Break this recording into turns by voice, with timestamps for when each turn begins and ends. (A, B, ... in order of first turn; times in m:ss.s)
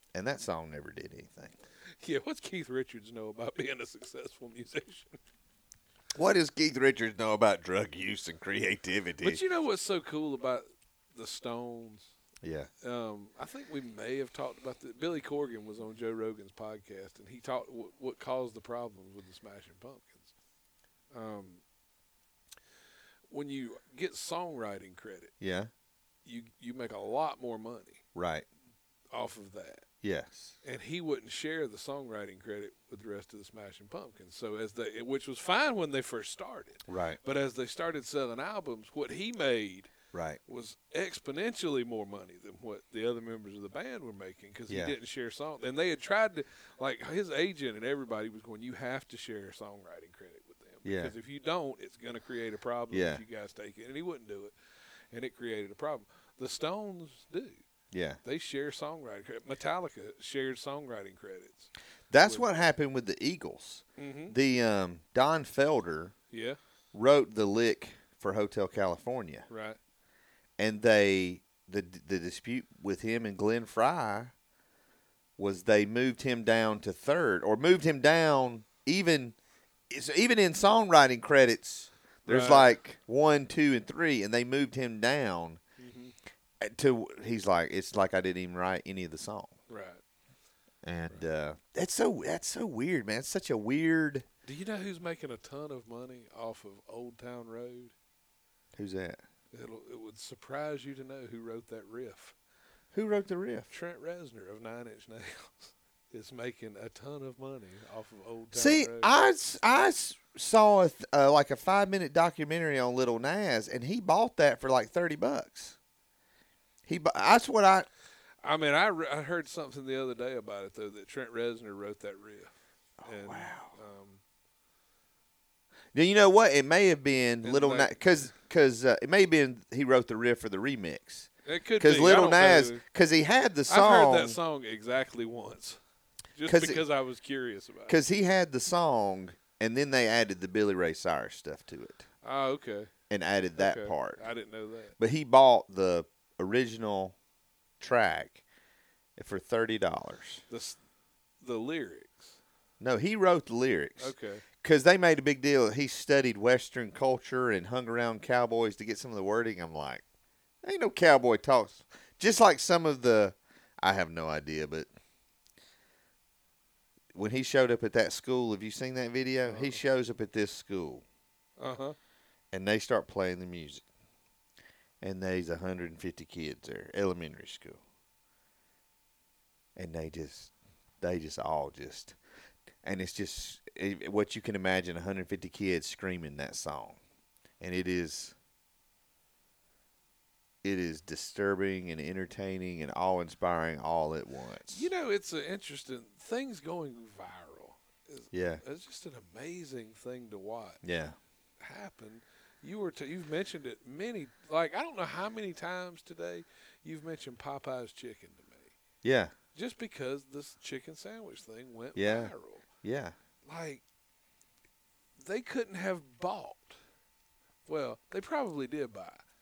0:00.1-0:01.6 A
0:02.0-0:05.2 B
0:06.1-0:09.4 A
0:09.2-0:12.1 B
0:12.4-0:12.7 A
0:12.8-0:20.3 B
0:21.1-0:21.6 B
0:23.3-0:25.3 B
0:25.4-0:25.7 A
0:26.2-0:28.0 B
0:28.1-0:28.4 A
0:29.1-0:29.8 B
0:30.0-0:30.5 A
0:30.6-0:39.9 B
0:36.9-0:37.2 A
0:40.1-0:40.4 A
0:40.4-0:54.5 B
0:44.7-0:44.9 A
0:50.8-0:51.1 A
0:52.9-0:53.2 A
0:55.1-0:57.6 B
0:57.9-0:58.2 A
0:58.2-1:01.7 B
1:02.1-1:06.1 A
1:04.0-1:04.3 B
1:06.3-1:06.6 B
1:06.9-1:09.4 A
1:09.5-1:09.8 B
1:10.6-1:14.3 A
1:15.4-1:19.3 A
1:19.9-1:25.6 A
1:22.2-1:22.7 B
1:25.8-1:26.1 B
1:26.6-1:29.5 A
1:29.7-1:30.0 B
1:30.8-1:34.3 A
1:34.4-1:37.9 B
1:38.7-1:39.2 A
1:39.5-1:42.3 B
1:42.9-1:43.7 A
1:43.7-1:49.1 B
1:48.5-1:55.8 A
1:56.8-1:57.9 A
1:58.4-2:02.5 B
2:03.0-2:03.7 A
2:03.0-2:04.2 B
2:05.9-2:14.4 A
2:07.4-2:07.9 B
2:11.4-2:12.8 B
2:13.7-2:15.8 B
2:16.3-2:18.0 B
2:16.4-2:16.8 A
2:17.9-2:22.0 A
2:22.2-2:22.9 B
2:23.1-2:24.2 A
2:23.6-2:24.9 B
2:25.0-2:27.1 A
2:27.8-2:28.4 A
2:29.2-2:30.4 A
2:30.5-2:30.8 B
2:31.4-2:32.4 B
2:32.8-2:40.0 A
2:34.0-2:34.4 B
2:40.6-2:44.9 A
2:47.1-2:51.0 A
2:49.4-2:49.8 B
2:51.6-2:52.0 B
2:52.5-2:53.8 A
2:55.0-2:57.8 A
2:59.8-3:02.2 A
3:02.8-3:07.0 A
3:07.6-3:08.3 A
3:10.6-3:14.9 A
3:14.7-3:20.8 B
3:18.3-3:18.6 A
3:20.8-3:21.2 A
3:21.6-3:28.7 B
3:29.0-3:29.3 A
3:29.5-3:32.6 B
3:32.0-3:33.1 A
3:33.4-3:33.8 B
3:35.2-3:36.8 B
3:37.6-3:39.2 B